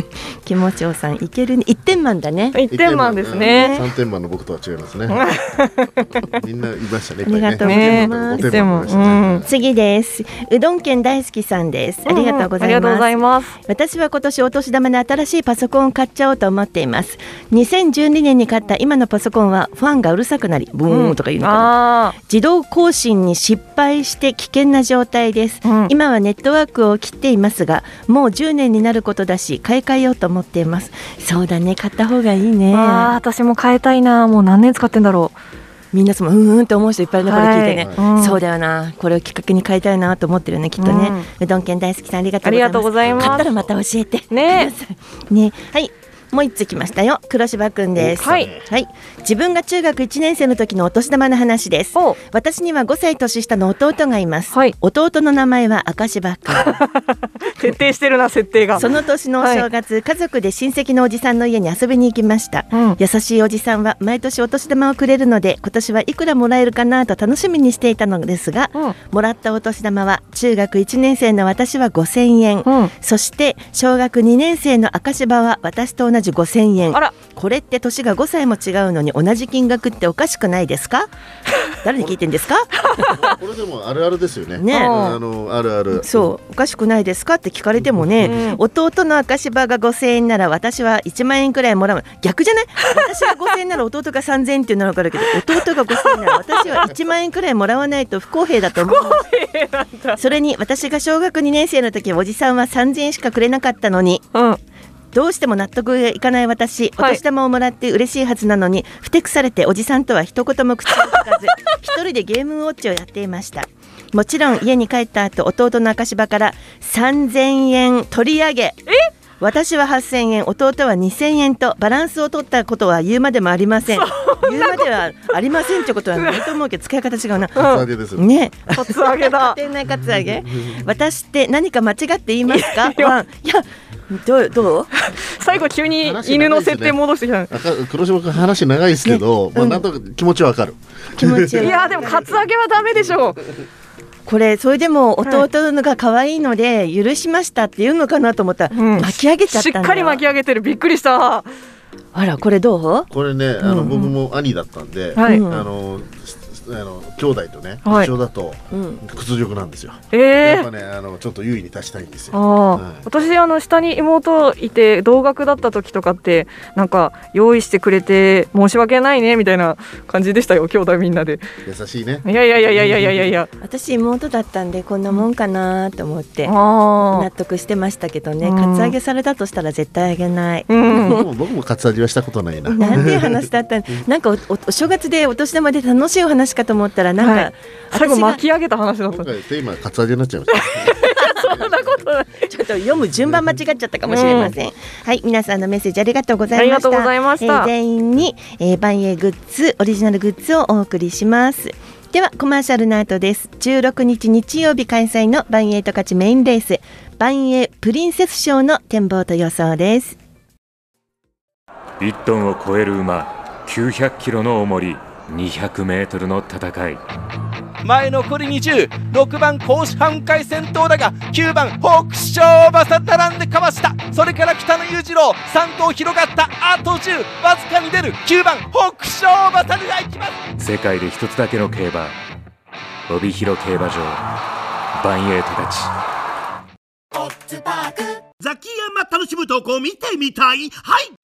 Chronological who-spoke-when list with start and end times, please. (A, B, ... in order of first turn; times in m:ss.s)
0:00.4-0:02.6 A
0:02.5-0:03.8 B
0:02.7-0:05.3 C
0:03.4-0:03.8 A
0:05.1-0:06.1 B
0:06.3-0:09.5 C
0:07.2-0:08.6 A
0:07.6-0:09.4 B
0:09.5-0:13.1 A
0:12.1-0:13.6 B
0:13.7-0:33.1 A
0:20.9-0:22.2 B
0:25.6-0:25.9 B
0:32.7-0:35.4 B
0:35.9-0:56.8 A
0:37.2-0:38.4 B
0:37.8-0:38.1 C
0:40.8-0:41.3 B
0:42.4-0:43.5 B
0:43.0-0:43.7 C
0:44.3-0:44.7 B
0:47.9-0:48.7 C
0:48.2-0:48.5 B
0:56.6-0:59.6 B
0:58.8-1:21.1 A
1:02.7-1:03.0 B
1:12.6-1:12.9 B
1:21.8-1:22.8 A
1:22.9-1:23.2 B
1:23.0-1:26.3 C
1:24.6-1:25.1 A
1:24.7-1:25.2 B
1:26.0-1:39.2 A
1:28.0-1:28.4 C
1:28.2-1:28.6 B
1:35.9-1:36.8 B
1:38.8-1:40.2 B
1:40.2-1:44.2 A
1:44.3-1:44.6 B
1:45.1-1:58.8 A
1:59.4-2:14.9 A
2:03.9-2:04.9 B
2:06.2-2:06.5 B
2:07.4-2:08.3 C
2:07.6-2:07.8 B
2:08.7-2:09.6 B
2:10.0-2:10.8 C
2:12.5-2:13.2 B
2:15.0-2:17.5 B
2:15.4-2:21.7 C
2:19.1-2:19.8 A
2:21.1-2:22.3 A
2:21.6-2:23.4 B
2:24.3-2:30.2 A
2:28.7-2:31.5 B
2:32.1-2:33.1 A
2:33.1-2:43.1 C
2:33.6-2:34.0 A
2:35.2-2:35.4 B
2:35.2-2:35.7 A
2:37.9-2:38.1 B
2:38.7-2:39.0 A
2:40.1-2:40.7 B
2:42.3-2:51.4 B
2:51.6-2:53.3 C
2:52.3-2:53.5 B
2:53.6-2:56.6 A
2:56.4-2:57.3 B
2:57.1-3:01.2 A
2:58.4-2:59.0 B
3:00.7-3:01.2 B
3:00.9-3:03.5 C
3:02.7-3:08.4 A
3:02.8-3:03.1 B
3:07.2-3:09.3 B
3:09.1-3:12.1 C
3:10.6-3:12.4 B
3:12.4-3:30.2 A
3:13.1-3:13.4 C
3:14.1-3:14.5 B
3:16.5-3:17.7 B
3:32.0-3:37.0 D
3:37.8-3:50.4 E
3:50.6-3:52.2 D
3:53.1-3:54.2 D
3:54.9-3:55.9 D
3:58.4-4:01.1 F